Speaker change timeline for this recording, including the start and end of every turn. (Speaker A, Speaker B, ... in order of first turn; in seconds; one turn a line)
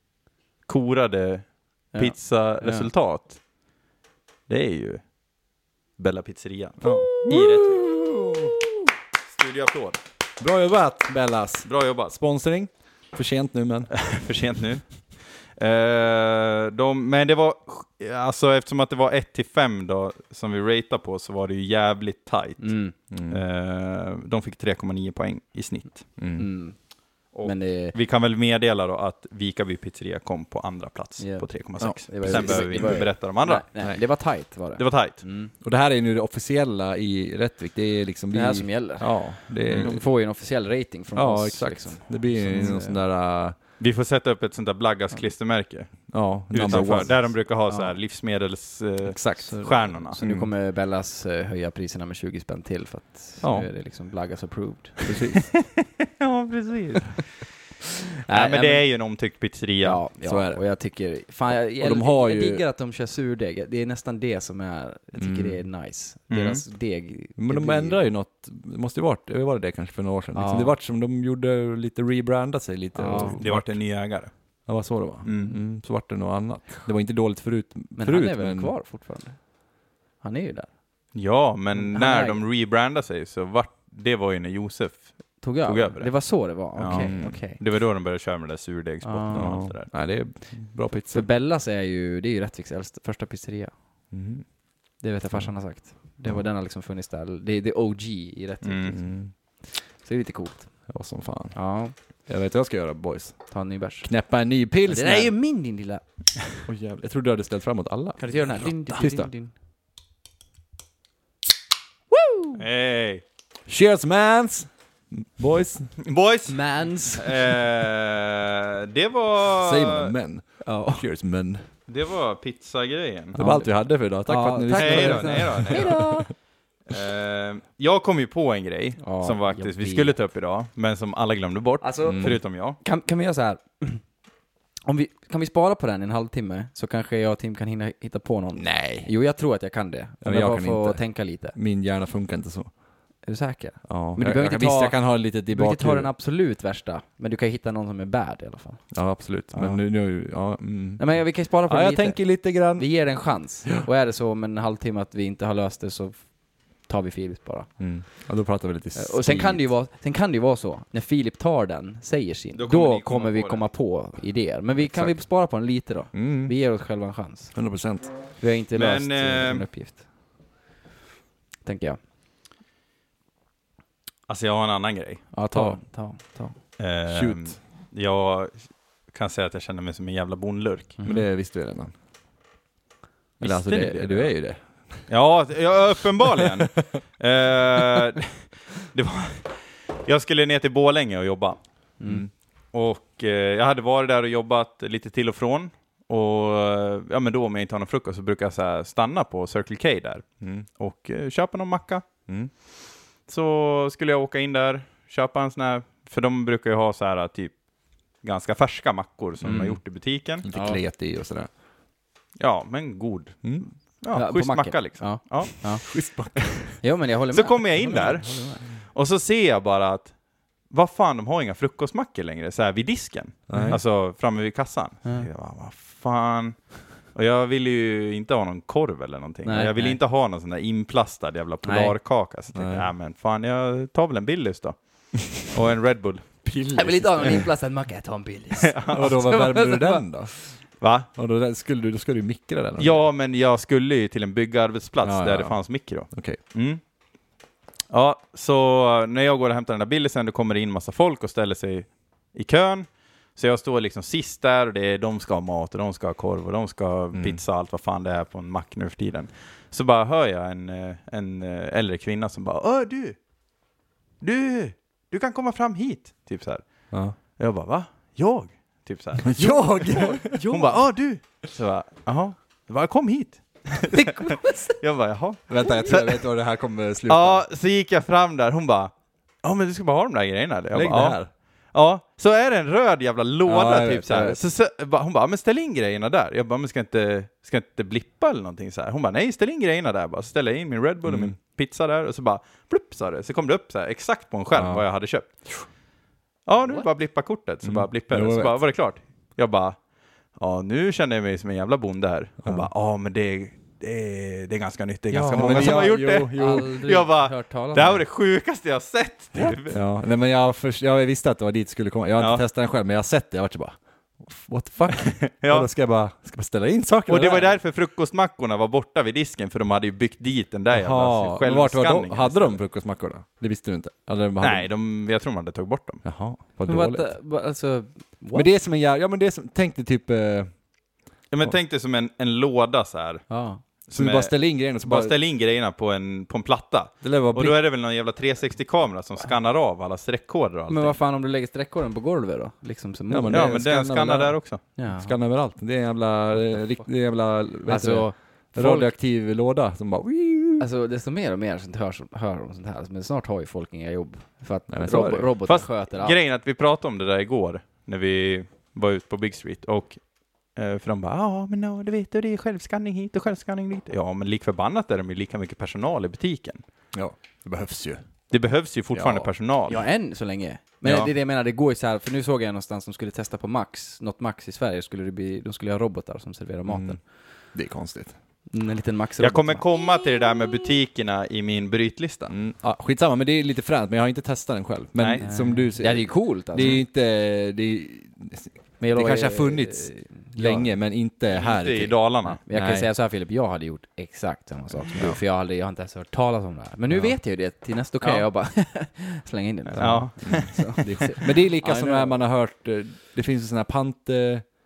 Speaker A: 0.7-3.4
Speaker B: 1.9-2.9
Speaker A: 4.5-5.0
Speaker A: 6.0-8.0
Speaker C: 6.8-8.6
Speaker A: 9.3-10.0
Speaker C: 10.4-13.9
Speaker A: 11.6-12.1
Speaker A: 13.9-14.8
Speaker A: 15.6-26.1
Speaker B: 22.6-22.9
Speaker C: 23.1-23.4
Speaker C: 26.2-26.5
Speaker B: 26.4-26.8
Speaker A: 27.3-33.6
Speaker B: 27.4-28.0
Speaker B: 31.2-35.5
Speaker C: 31.8-33.1
Speaker A: 34.8-35.2
Speaker C: 35.6-40.0
Speaker B: 38.3-43.0
Speaker C: 41.1-43.6
Speaker A: 43.8-50.2
Speaker C: 46.1-47.2
Speaker B: 47.7-47.9
Speaker C: 49.0-49.6
Speaker B: 49.4-55.3
Speaker C: 50.2-50.5
Speaker C: 53.4-53.7
Speaker C: 55.0-55.5
Speaker A: 55.5-57.5
Speaker B: 58.2-58.9
Speaker A: 58.3-60.0
Speaker B: 59.8-68.0
Speaker C: 60.2-60.6
Speaker C: 61.5-62.6
Speaker C: 65.2-65.6
Speaker A: 66.3-66.6
Speaker C: 67.4-73.8
Speaker B: 70.3-70.7
Speaker B: 72.9-73.4
Speaker A: 73.4-74.3
Speaker C: 74.7-78.7
Speaker A: 75.2-75.5
Speaker B: 78.0-79.5
Speaker B: 80.2-80.7
Speaker A: 81.1-89.9
Speaker B: 81.7-82.4
Speaker B: 85.4-87.6
Speaker C: 86.9-87.4
Speaker B: 89.0-89.5
Speaker C: 89.3-91.2
Speaker B: 91.1-93.7
Speaker C: 94.1-94.4
Speaker B: 95.0-99.1
Speaker A: 98.6-99.0
Speaker C: 98.9-99.3
Speaker B: 99.8-100.9
Speaker C: 100.9-101.6
Speaker B: 101.5-101.9
Speaker C: 102.3-105.3
Speaker B: 103.5-104.1
Speaker B: 104.8-106.0
Speaker C: 106.7-109.3
Speaker B: 108.2-109.5
Speaker B: 112.1-112.6
Speaker A: 112.6-113.2
Speaker C: 113.7-115.9
Speaker A: 116.0-120.1
Speaker B: 116.5-117.4
Speaker C: 119.5-121.7
Speaker B: 120.6-121.0
Speaker A: 121.9-123.4
Speaker C: 123.3-126.3
Speaker B: 123.4-123.7
Speaker B: 124.2-126.3
Speaker A: 124.7-126.3
Speaker A: 126.9-132.8
Speaker B: 129.0-130.1
Speaker B: 131.8-134.0
Speaker C: 132.0-132.4
Speaker B: 134.8-141.6
Speaker C: 138.6-139.1
Speaker C: 140.2-142.7
Speaker B: 143.2-148.9
Speaker C: 143.8-146.1
Speaker C: 148.9-152.9
Speaker B: 149.5-149.8
Speaker B: 151.0-157.7
Speaker C: 157.8-159.7
Speaker B: 158.9-167.5
Speaker A: 162.6-163.6
Speaker C: 164.8-165.2
Speaker C: 166.1-166.5
Speaker C: 167.5-168.1
Speaker B: 168.4-170.0
Speaker A: 168.7-169.7
Speaker B: 171.6-172.0
Speaker A: 174.3-175.2
Speaker B: 175.3-176.6
Speaker C: 175.5-175.8
Speaker A: 176.8-180.9
Speaker C: 177.1-177.6
Speaker B: 181.0-181.2
Speaker C: 181.0-181.9
Speaker A: 183.4-184.3
Speaker C: 183.4-185.1
Speaker A: 185.1-191.6
Speaker B: 192.0-192.3
Speaker C: 192.0-192.3
Speaker A: 192.7-202.1
Speaker C: 200.4-200.7
Speaker A: 203.3-207.6
Speaker A: 208.2-210.4
Speaker C: 209.4-209.8
Speaker C: 210.4-211.5
Speaker B: 210.5-210.8
Speaker A: 212.4-215.8
Speaker B: 214.1-215.8
Speaker C: 215.8-216.8
Speaker B: 216.8-218.6
Speaker A: 217.3-220.1
Speaker A: 220.7-236.4
Speaker C: 223.5-223.8
Speaker B: 229.4-230.0
Speaker B: 231.6-231.9
Speaker C: 232.5-232.9
Speaker C: 236.4-237.5
Speaker B: 236.7-240.0
Speaker A: 238.6-239.1
Speaker C: 238.9-240.4
Speaker A: 240.8-241.1
Speaker C: 241.1-243.0
Speaker A: 242.8-246.8
Speaker C: 245.0-246.4
Speaker A: 247.9-263.2
Speaker C: 257.1-257.4
Speaker A: 264.2-276.3
Speaker C: 266.9-267.2
Speaker C: 269.2-270.4
Speaker B: 269.9-270.8
Speaker B: 273.9-274.8
Speaker C: 275.5-277.4
Speaker B: 275.6-275.9
Speaker A: 277.1-278.9
Speaker A: 279.4-295.5
Speaker C: 280.7-281.3
Speaker C: 283.4-284.4
Speaker C: 291.0-291.3
Speaker C: 294.5-294.8
Speaker A: 296.4-299.8
Speaker C: 297.6-298.6
Speaker A: 300.3-309.8
Speaker C: 302.4-302.7
Speaker B: 305.1-308.0
Speaker C: 305.2-306.7
Speaker C: 309.6-317.6
Speaker A: 312.2-312.4
Speaker A: 314.9-315.7
Speaker A: 317.1-322.6
Speaker C: 320.7-324.7
Speaker A: 324.4-326.0
Speaker C: 326.0-327.1
Speaker B: 326.6-328.5
Speaker C: 328.3-330.5
Speaker A: 331.3-333.2
Speaker B: 333.3-333.6
Speaker A: 333.9-341.0
Speaker C: 333.9-335.1
Speaker C: 337.0-337.6
Speaker B: 340.7-343.6
Speaker C: 343.1-350.7
Speaker A: 343.3-344.6
Speaker B: 344.8-345.1
Speaker B: 346.4-346.8
Speaker B: 347.6-348.9
Speaker B: 350.6-356.2
Speaker C: 354.7-355.3
Speaker A: 355.4-360.0
Speaker A: 360.5-366.6
Speaker C: 366.9-368.1
Speaker A: 368.3-369.8
Speaker C: 368.9-369.3
Speaker B: 369.7-377.0
Speaker A: 370.8-371.1
Speaker C: 376.6-378.1
Speaker B: 378.5-379.6
Speaker A: 379.2-382.3
Speaker C: 382.3-392.9
Speaker A: 384.9-385.2
Speaker B: 385.2-386.8
Speaker B: 388.8-390.7
Speaker A: 391.3-392.4
Speaker B: 392.4-402.2
Speaker C: 396.9-397.2
Speaker A: 398.0-398.3
Speaker A: 399.7-400.9
Speaker C: 399.8-404.5